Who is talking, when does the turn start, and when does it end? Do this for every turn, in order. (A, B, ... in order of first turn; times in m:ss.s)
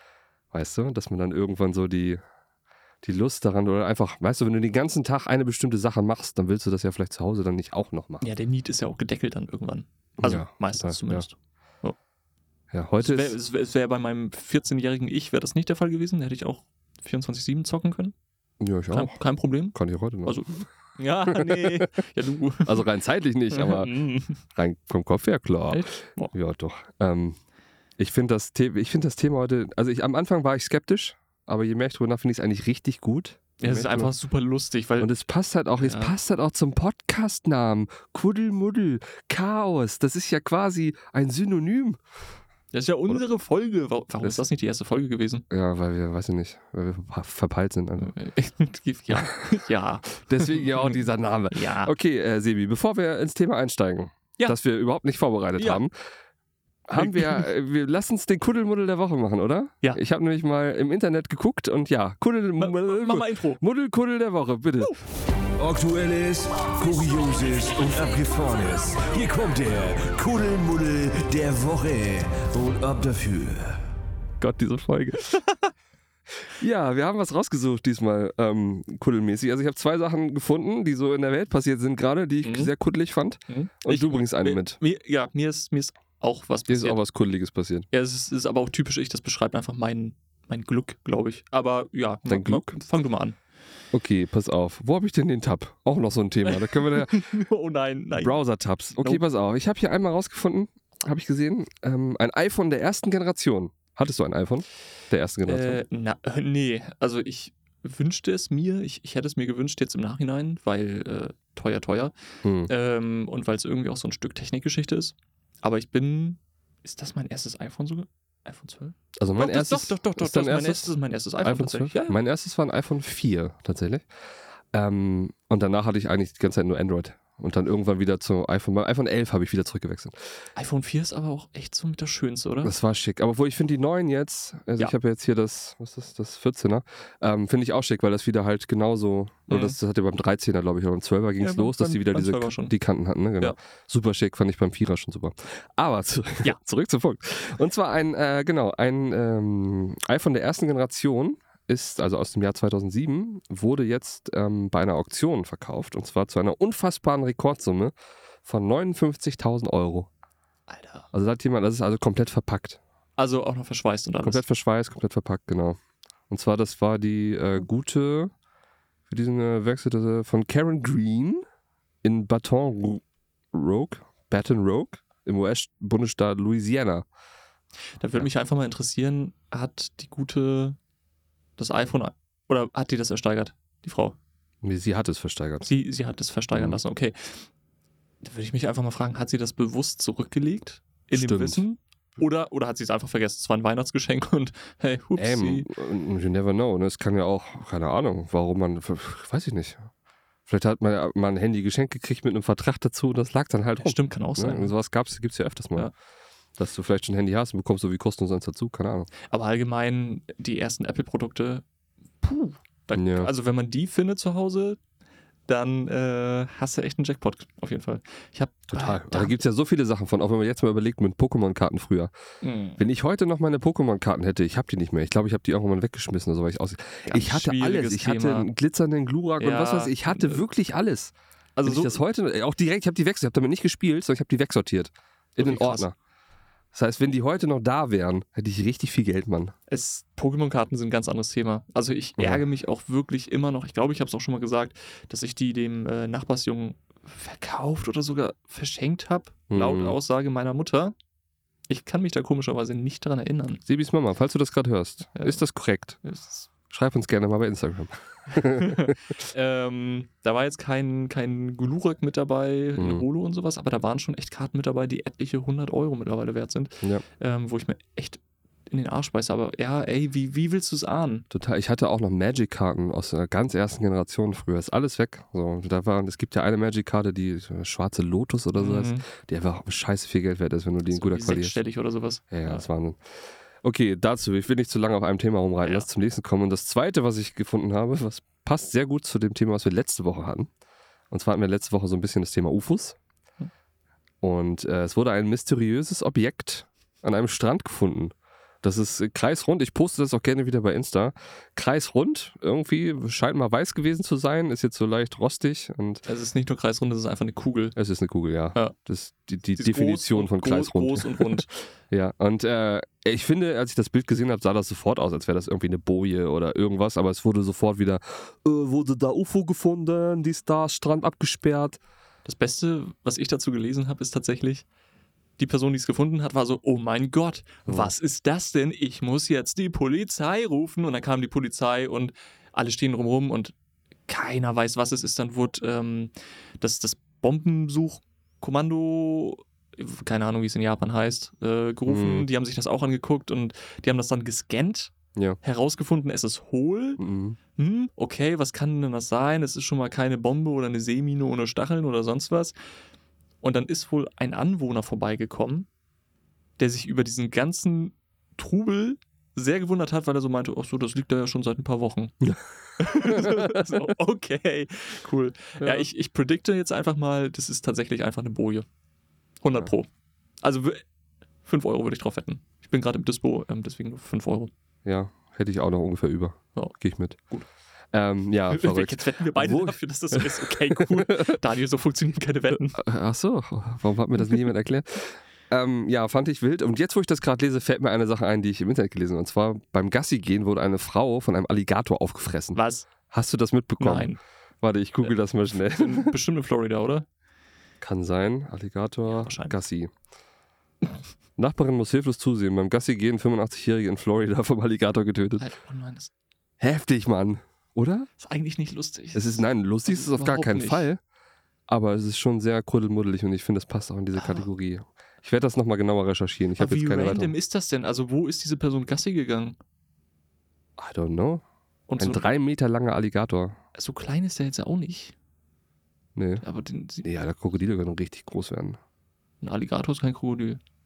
0:00.5-0:02.2 A
0:03.0-0:08.3 A
0:08.2-0:12.0 B
0:10.2-0:11.3 A
0:12.7-0:13.4 A
0:13.0-0:18.2 B
0:18.6-0:19.2 A
0:18.9-0:22.9 B
0:19.7-0:20.4 A
0:21.3-0:21.9 A
0:22.6-0:27.4 A
0:23.5-0:24.4 B
0:25.7-0:26.3 B
0:28.0-0:34.1 A
0:33.6-0:35.1 B
0:35.0-0:42.0 A
0:35.8-0:36.2 B
0:42.7-0:45.5 B
0:45.5-0:48.2 A
0:48.0-0:51.0 B
0:50.2-0:55.9 A
0:51.5-0:51.9 B
0:55.6-0:55.8 B
0:56.9-1:04.9 A
0:57.0-0:57.5 B
1:02.6-1:03.6 B
1:05.6-1:13.8 C
1:14.4-1:15.3 A
1:15.3-1:15.7 B
1:16.6-1:24.8 A
1:22.4-1:22.7 B
1:23.5-1:27.0 B
1:26.7-1:27.9 A
1:27.9-1:33.4 B
1:32.3-1:32.8 A
1:33.9-1:37.3 A
1:36.5-1:38.4 B
1:38.2-1:45.8 A
1:39.0-1:39.2 B
1:45.5-1:52.1 B
1:52.4-1:52.7 A
1:52.7-2:02.2 B
1:59.2-2:04.0 A
2:04.7-2:10.2 A
2:10.6-2:12.7 B
2:12.6-2:37.9 A
2:19.5-2:19.8 B
2:21.4-2:22.8 B
2:38.4-2:40.1 A
2:40.7-2:41.1 B
2:41.1-2:42.8 A
2:43.2-2:44.4 B
2:44.2-2:45.8 A
2:46.3-2:48.3 A
2:49.1-2:51.4 A
2:52.0-2:57.1 A
2:58.0-3:00.8 B
3:01.6-3:04.2 B
3:04.6-3:05.7 A
3:05.6-3:07.5 B
3:06.5-3:06.8 A
3:08.2-3:15.7 B
3:11.1-3:11.6 A
3:15.2-3:19.9 A
3:20.5-3:25.9 A
3:23.8-3:24.7 B
3:26.6-3:29.1 A
3:29.3-3:31.6 B
3:32.2-3:34.8 B
3:33.0-3:33.3 A
3:35.5-3:39.4 B
3:38.7-3:42.1 A
3:42.4-3:42.8 B
3:42.8-3:55.9 A
3:47.1-3:48.5 B
3:49.4-3:50.4 B
3:51.6-3:52.0 B
3:55.4-3:55.9 B
3:56.7-3:59.5 A
3:59.7-4:11.0 B
4:02.2-4:02.4 A
4:09.5-4:10.0 A
4:11.7-4:13.6 B
4:13.7-4:16.0 A
4:15.2-4:15.4 B
4:16.0-4:16.5 B
4:16.7-4:19.0 A
4:18.3-4:31.3 B
4:22.8-4:23.0 A
4:31.3-4:41.6 A
4:38.6-4:39.0 B
4:40.9-4:42.7 B
4:42.3-4:50.5 A
4:45.6-4:45.9 B
4:51.1-4:53.0 A
4:54.2-5:06.0 A
5:06.1-5:07.8 B
5:07.8-5:21.8 A
5:09.6-5:11.5 B
5:22.2-5:24.6 B
5:25.4-5:33.5 B
5:27.7-5:27.9 A
5:34.1-5:47.0 B
5:41.9-5:42.3 A
5:47.0-5:47.4 A
5:47.6-5:52.5 B
5:53.4-5:55.7 B
5:56.6-6:02.2 B
6:02.2-6:03.8 A
6:02.8-6:08.7 B
6:05.6-6:05.9 A
6:09.4-6:09.9 B
6:10.4-6:10.8 B
6:11.4-6:14.5 B
6:14.8-6:17.2 A
6:17.9-6:21.4 A
6:18.5-6:22.8 B
6:22.8-6:36.2 A
6:32.5-6:32.9 B
6:33.8-6:34.2 B
6:35.0-6:37.1 B
6:37.8-6:39.9 A
6:39.1-6:39.6 B
6:41.4-6:45.4 A
6:45.4-6:46.1 B
6:46.6-6:48.1 A
6:48.2-6:50.9 B
6:49.2-6:51.0 A
6:51.7-6:57.4 A
6:54.2-6:54.5 B
6:56.6-6:59.6 B
7:00.8-7:01.4 A
7:01.9-7:02.3 B
7:02.0-7:03.6 A
7:03.8-7:05.2 B
7:06.2-7:06.4 A
7:06.4-7:07.0 B
7:07.0-7:08.8 A
7:09.4-7:10.6 B